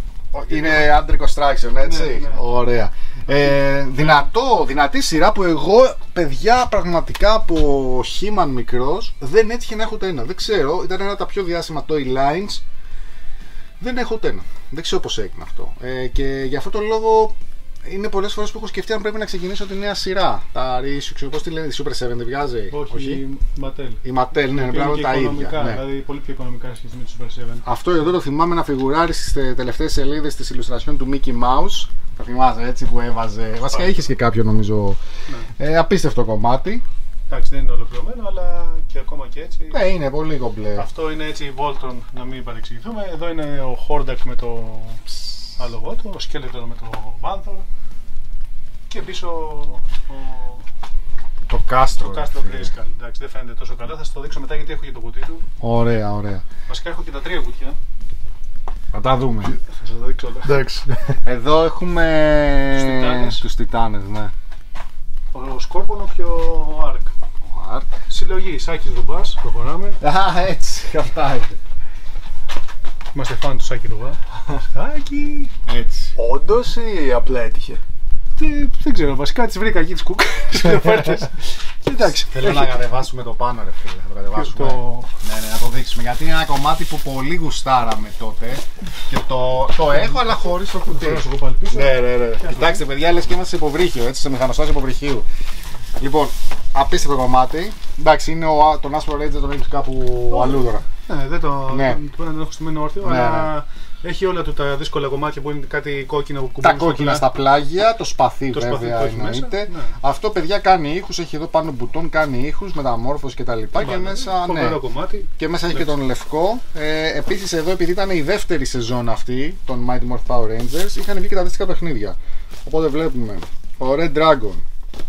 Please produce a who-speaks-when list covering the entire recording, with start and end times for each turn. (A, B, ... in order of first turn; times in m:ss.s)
0:00.3-0:12.6 A
0:00.5-0:00.9 B
0:01.8-0:02.4 B
0:03.5-0:04.2 B
0:13.8-0:23.2 A
0:22.7-0:27.7 B
0:24.0-0:25.8 A
0:27.6-0:35.0 A
0:33.7-0:34.0 B
0:35.6-0:36.8 A
0:37.3-0:39.8 B
0:39.7-0:40.9 A
0:40.8-0:47.6 B
0:48.9-0:50.6 B
0:51.5-0:52.7 A
0:52.0-0:55.4 B
0:55.6-0:56.4 A
0:56.7-0:57.8 B
0:58.9-0:59.5 A
0:59.5-1:00.7 B
1:00.4-1:01.0 C
1:01.2-1:04.3 A
1:02.8-1:03.4 B
1:05.3-1:07.1 B
1:07.5-1:07.9 A
1:08.1-1:10.0 B
1:10.0-1:11.6 A
1:13.1-1:15.5 B
1:15.7-1:16.1 A
1:16.2-1:17.8 C
1:18.4-1:22.8 B
1:22.0-1:35.3 A
1:24.3-1:25.1 B
1:30.8-1:32.8 B
1:36.0-1:40.8 A
1:40.3-1:47.3 B
1:41.7-1:42.0 A
1:43.0-1:43.5 A
1:46.6-1:54.8 A
1:48.5-1:49.9 B
1:53.8-1:55.9 B
1:55.4-2:04.6 A